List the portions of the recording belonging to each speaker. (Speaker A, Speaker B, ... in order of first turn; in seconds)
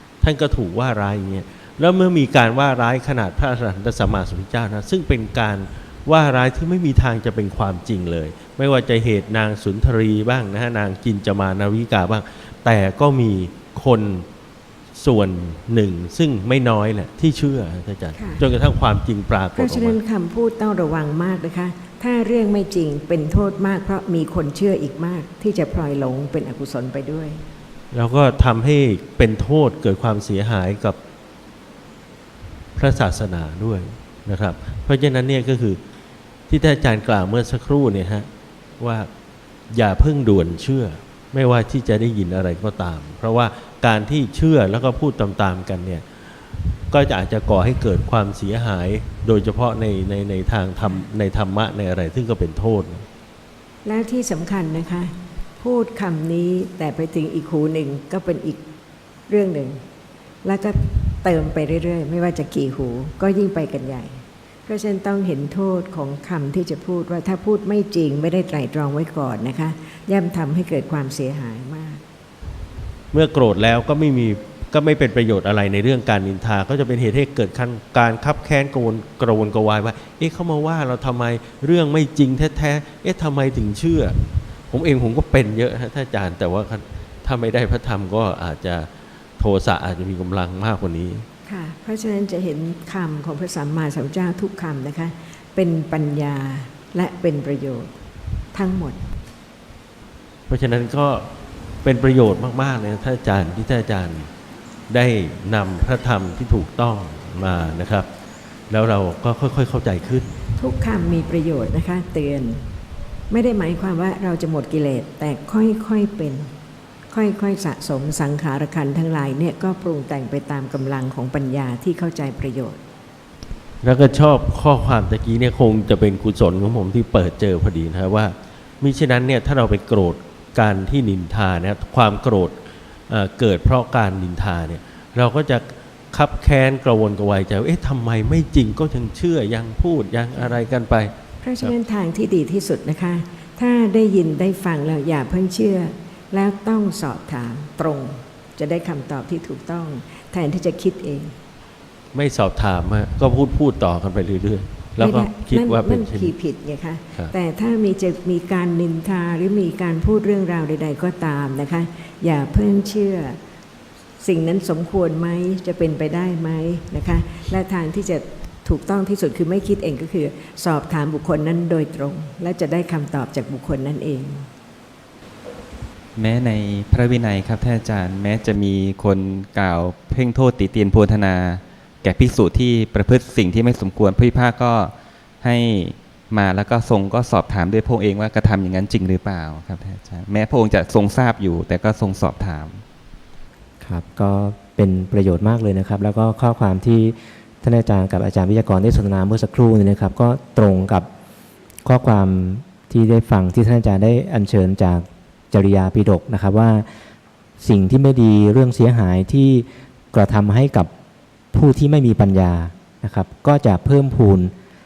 Speaker A: 0.2-14.2, 14.9-20.0, 27.9-31.0, 32.8-35.8, 36.5-38.3, 38.8-39.1, 39.7-46.0, 46.9-53.0, 73.1-84.2, 84.7-91.2, 100.5-101.3, 101.8-104.3, 104.9-108.1, 108.7-110.3, 123.8-132.5, 133.1-141.7, 152.1-156.3
Speaker B: 18.1-18.4, 19.6-27.4, 53.8-58.6, 59.3-59.8, 60.4-72.0, 91.5-97.9, 98.5-99.0, 110.6-112.7, 113.3-116.5, 117.1-122.8, 141.4-151.3, 155.0-163.4, 164.2-174.5
Speaker C: 176.2-192.8
Speaker D: 193.8-201.1, 201.8-206.9, 207.6-210.9, 211.5-214.5